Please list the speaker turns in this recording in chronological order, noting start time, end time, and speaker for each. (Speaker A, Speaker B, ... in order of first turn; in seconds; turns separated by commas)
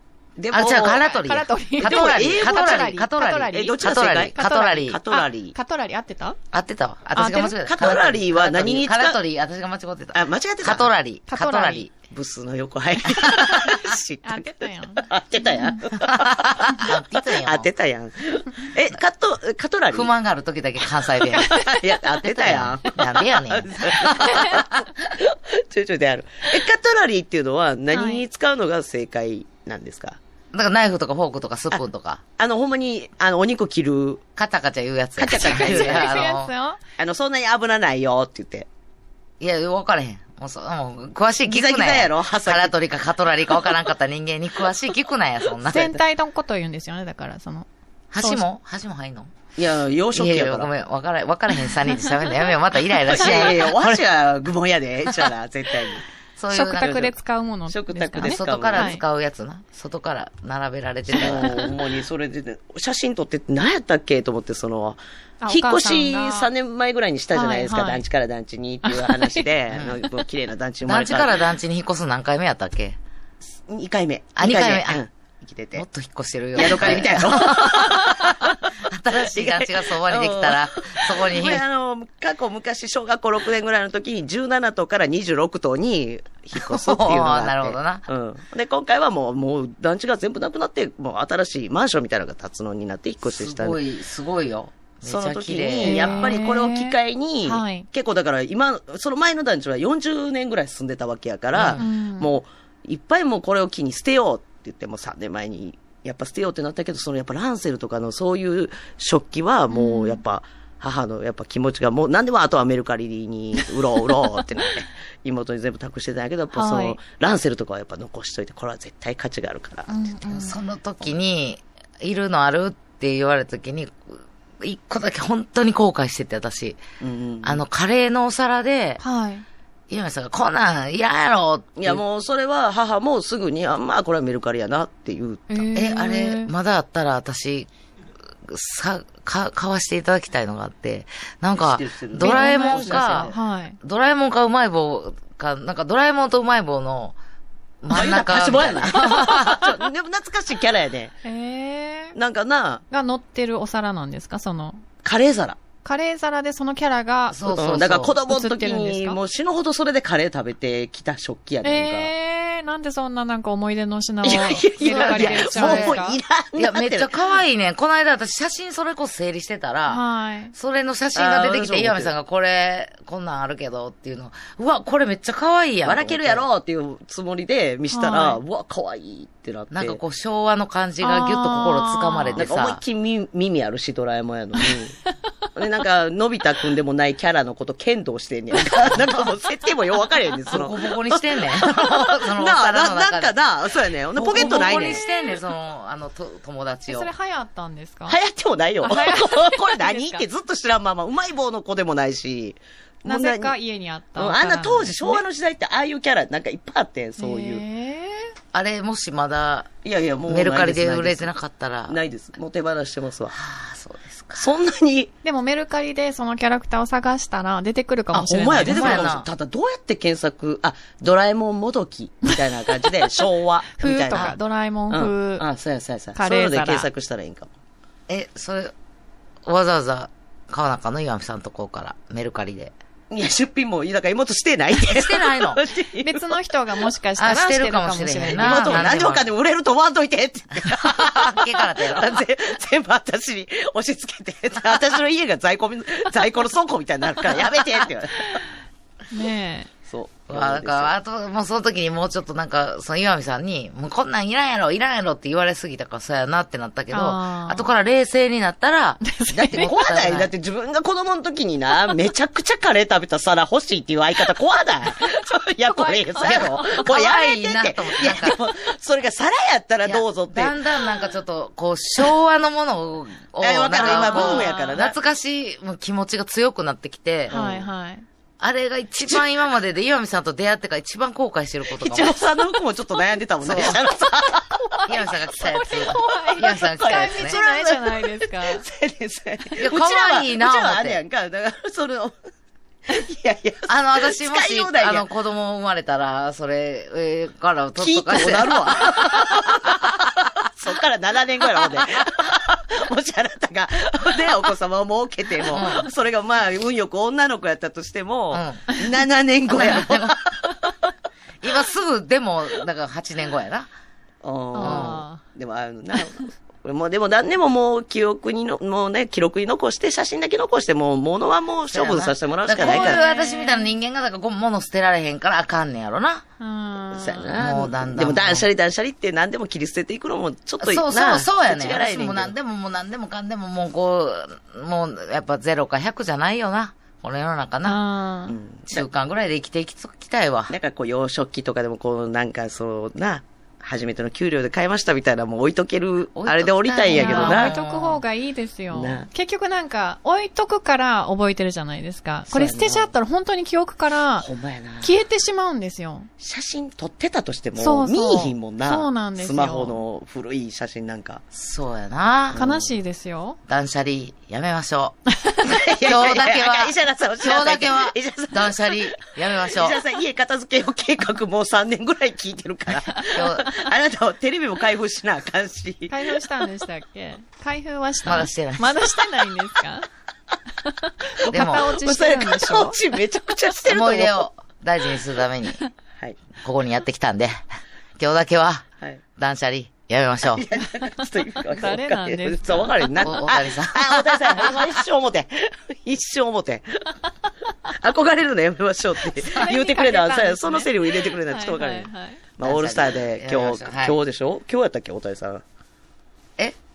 Speaker A: 0.4-1.1, Speaker B: 0.5-5.0, Speaker C: 1.1-3.8, Speaker A: 1.8-5.5, Speaker C: 4.3-6.4, Speaker B: 6.5-11.9, Speaker C: 7.2-7.6, Speaker A: 7.6-9.2, Speaker A: 10.1-10.9, Speaker C: 11.3-11.9, Speaker A: 12.1-20.1, Speaker B: 13.1-13.8, Speaker C: 14.2-15.8, Speaker B: 16.0-17.7, Speaker B: 19.9-21.6, Speaker C: 21.2-21.8, Speaker A: 21.5-30.2, Speaker B: 22.2-24.8, Speaker C: 24.0-24.6, Speaker C: 27.9-28.2, Speaker B: 30.5-32.2, Speaker A: 32.4-34.2, Speaker B: 34.4-36.5, Speaker A: 35.2-36.2, Speaker C: 35.3-36.8, Speaker A: 37.0-38.7, Speaker B: 39.4-46.0, Speaker A: 41.5-42.7, Speaker C: 45.7-47.7, Speaker B: 48.1-49.3, Speaker C: 48.2-48.5, Speaker A: 49.6-50.7, Speaker B: 50.1-54.0, Speaker C: 52.0-52.3, Speaker A: 53.1-56.0, Speaker C: 53.2-53.5, Speaker B: 55.0-55.3, Speaker B: 56.4-57.1, Speaker C: 56.5-59.0, Speaker A: 57.7-59.0, Speaker B: 58.2-61.7, Speaker A: 61.1-71.4, Speaker C: 65.4-66.5, Speaker C: 67.3-68.0, Speaker C: 68.8-69.5, Speaker B: 69.7-70.0, Speaker B: 70.8-73.0, Speaker A: 73.7-75.9, Speaker B: 74.4-75.0, Speaker B: 75.8-81.6, Speaker A: 76.5-93.8, Speaker B: 86.6-88.1, Speaker B: 93.2-96.4, Speaker A: 95.0-119.9, Speaker C: 95.8-97.9, Speaker B: 101.5-101.8, Speaker C: 101.8-102.3, Speaker C: 109.7-110.2, Speaker C: 116.5-117.0, Speaker C: 119.9-120.6, Speaker B: 120.3-126.8, Speaker A: 127.0-127.6, Speaker B: 127.4-129.0, Speaker C: 129.0-129.4, Speaker B: 129.9-132.0, Speaker A: 131.8-135.7, Speaker C: 135.5-136.5, Speaker B: 135.7-137.7, Speaker B: 138.5-143.3, Speaker A: 141.6-143.4, Speaker C: 142.2-143.8, Speaker B: 143.8-147.2, Speaker B: 147.8-149.7, Speaker A: 147.9-151.2, Speaker C: 148.9-149.4, Speaker C: 151.2-152.2, Speaker A: 152.2-152.8, Speaker C: 152.9-154.8, Speaker A: 155.0-155.6, Speaker C: 155.8-157.4, Speaker B: 157.3-158.2, Speaker A: 157.5-162.1, Speaker C: 158.3-159.2, Speaker C: 161.6-166.2, Speaker A: 164.2-167.1, Speaker B: 164.8-166.0, Speaker B: 166.6-170.0, Speaker C: 169.9-170.5, Speaker B: 170.5-176.4, Speaker A: 171.2-172.1, Speaker A: 175.8-180.0, Speaker C: 177.9-178.4, Speaker B: 179.7-182.8, Speaker C: 181.0-182.4, Speaker A: 182.4-185.0, Speaker A: 185.6-195.0, Speaker B: 188.9-189.3, Speaker B: 190.5-193.3, Speaker B: 194.2-197.1, Speaker C: 194.3-195.3, Speaker C: 196.9-198.2, Speaker A: 198.1-203.6, Speaker C: 198.8-200.2, Speaker C: 203.1-205.2, Speaker A: 204.2-207.7, Speaker C: 207.2-208.3, Speaker B: 208.5-209.7, Speaker A: 209.8-211.3, Speaker B: 210.3-212.0, Speaker A: 211.9-213.4, Speaker B: 213.3-214.5, Speaker A: 214.4-215.1, Speaker C: 215.2-219.1, Speaker A: 218.1-224.4, Speaker B: 218.6-219.3, Speaker C: 223.8-225.4, Speaker A: 224.9-227.5, Speaker C: 226.2-226.9, Speaker B: 228.1-228.7, Speaker B: 229.4-232.7, Speaker A: 233.1-236.4, Speaker B: 234.9-235.6, Speaker C: 236.0-238.9, Speaker B: 237.2-239.3, Speaker A: 238.3-248.4, Speaker B: 240.7-242.2, Speaker C: 249.1-249.7, Speaker A: 249.9-250.9, Speaker B: 250.3-260.3, Speaker C: 256.9-257.6, Speaker C: 259.0-259.7, Speaker A: 259.3-270.6, Speaker C: 265.7-266.9, Speaker B: 266.2-268.4, Speaker B: 269.8-277.4, Speaker A: 273.4-274.9, Speaker C: 273.9-274.8, Speaker A: 277.3-277.7, Speaker C: 277.3-278.1, Speaker B: 278.4-282.2, Speaker A: 281.8-284.9, Speaker B: 283.4-283.8, Speaker B: 284.9-287.4, Speaker C: 285.4-288.6, Speaker A: 286.0-292.1, Speaker B: 289.6-291.0, Speaker A: 292.9-295.1, Speaker B: 293.7-299.5, Speaker A: 297.8-310.9, Speaker B: 305.5-305.9, Speaker B: 308.3-308.7, Speaker B: 309.5-310.3, Speaker B: 311.4-313.7, Speaker A: 314.2-323.0, Speaker C: 314.6-315.2, Speaker B: 314.6-315.0, Speaker B: 321.7-326.2, Speaker C: 322.6-323.7, Speaker C: 326.4-327.3, Speaker A: 326.9-332.3, Speaker B: 327.4-328.4, Speaker B: 330.6-337.8, Speaker C: 337.6-338.4, Speaker A: 338.3-338.9, Speaker B: 338.7-340.5, Speaker A: 340.5-347.6, Speaker B: 346.2-348.0, Speaker C: 346.9-354.3, Speaker A: 348.7-349.1, Speaker A: 352.3-352.9, Speaker A: 354.2-354.9, Speaker C: 354.8-356.1, Speaker A: 356.2-361.2, Speaker C: 357.6-359.8, Speaker B: 361.3-362.4, Speaker A: 362.3-362.7, Speaker C: 362.4-363.4, Speaker B: 363.5-365.0, Speaker A: 365.4-376.2, Speaker B: 365.8-369.8, Speaker B: 373.1-373.5, Speaker C: 375.9-379.9, Speaker B: 378.1-378.8, Speaker C: 380.6-382.8, Speaker A: 381.2-384.3, Speaker B: 381.3-381.7, Speaker B: 383.7-385.6, Speaker B: 386.4-387.4, Speaker B: 388.0-388.7, Speaker B: 389.2-390.5, Speaker A: 390.3-396.9, Speaker C: 390.6-392.9, Speaker B: 393.0-394.6, Speaker A: 397.7-405.4, Speaker C: 399.2-402.2, Speaker B: 402.4-404.0